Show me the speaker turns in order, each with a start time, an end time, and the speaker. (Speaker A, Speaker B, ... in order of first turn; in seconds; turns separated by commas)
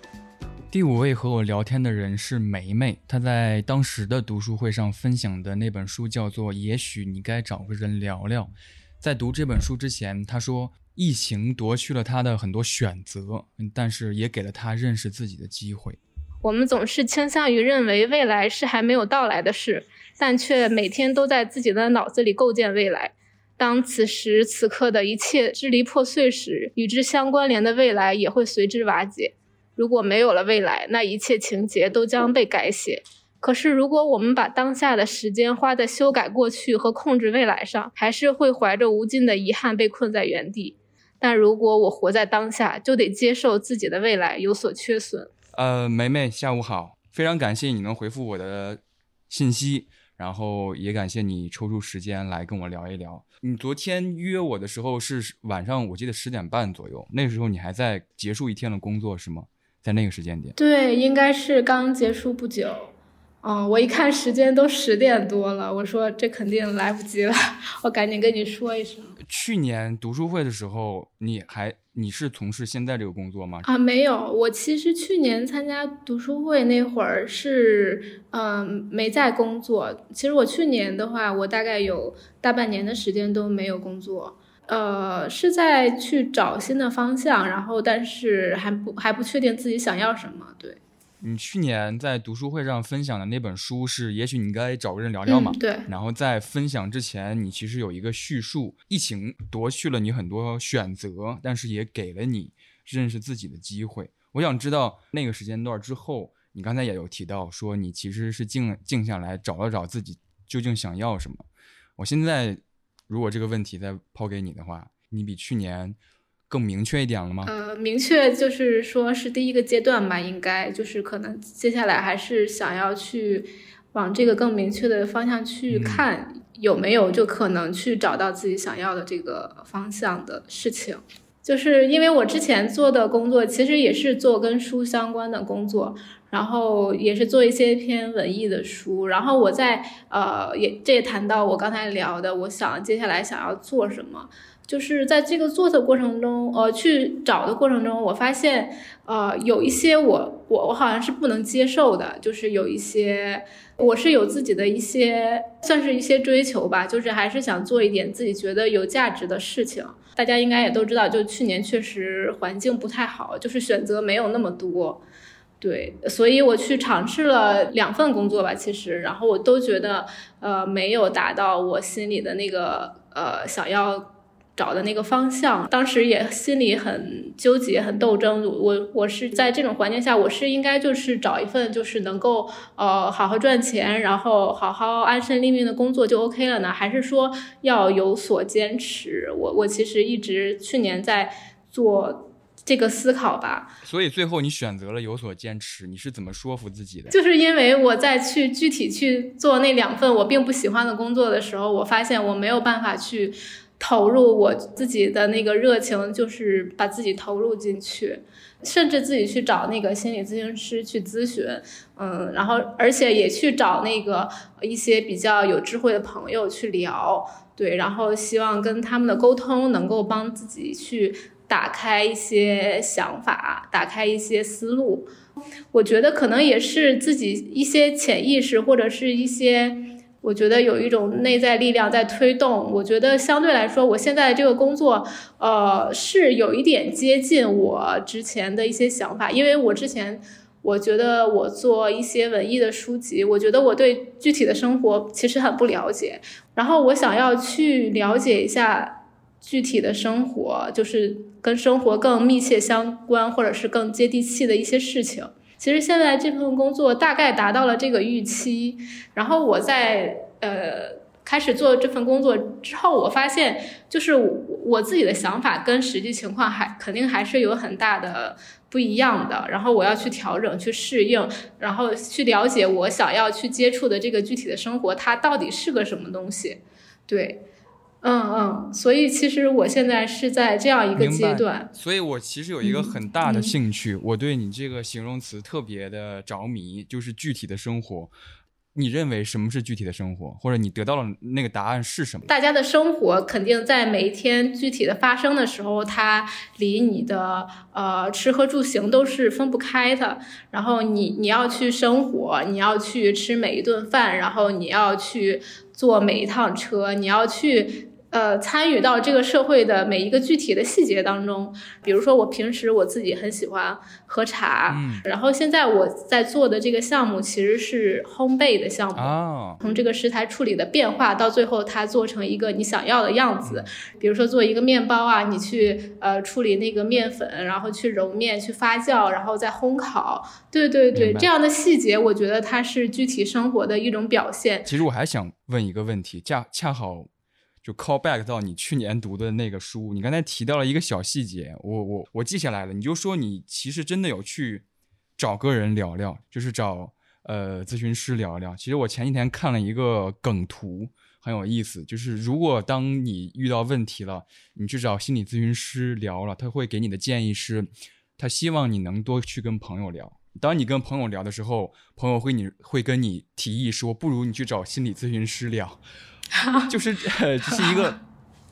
Speaker A: 0.7-16.0, Speaker B: 16.4-45.3, Speaker A: 45.5-60.5, Speaker B: 60.6-69.1, Speaker A: 69.2-73.7, Speaker B: 73.6-90.8, Speaker A: 91.2-111.4, Speaker B: 95.3-95.9, Speaker A: 112.0-116.0, Speaker A: 116.5-117.5, Speaker B: 117.4-165.0, Speaker A: 125.7-126.0, Speaker B: 165.6-193.7, Speaker A: 193.8-197.1, Speaker B: 197.1-225.1, Speaker B: 225.7-277.4, Speaker B: 278.0-281.7, Speaker A: 281.0-288.1, Speaker B: 282.6-283.5, Speaker A: 288.7-292.3, Speaker B: 292.3-334.7, Speaker A: 314.7-315.1, Speaker A: 318.9-319.6, Speaker A: 323.4-323.7, Speaker A: 330.9-331.3, Speaker A: 334.6-337.1, Speaker A: 337.6-344.6, Speaker A: 345.2-365.8, Speaker B: 366.4-366.7, Speaker A: 366.6-368.0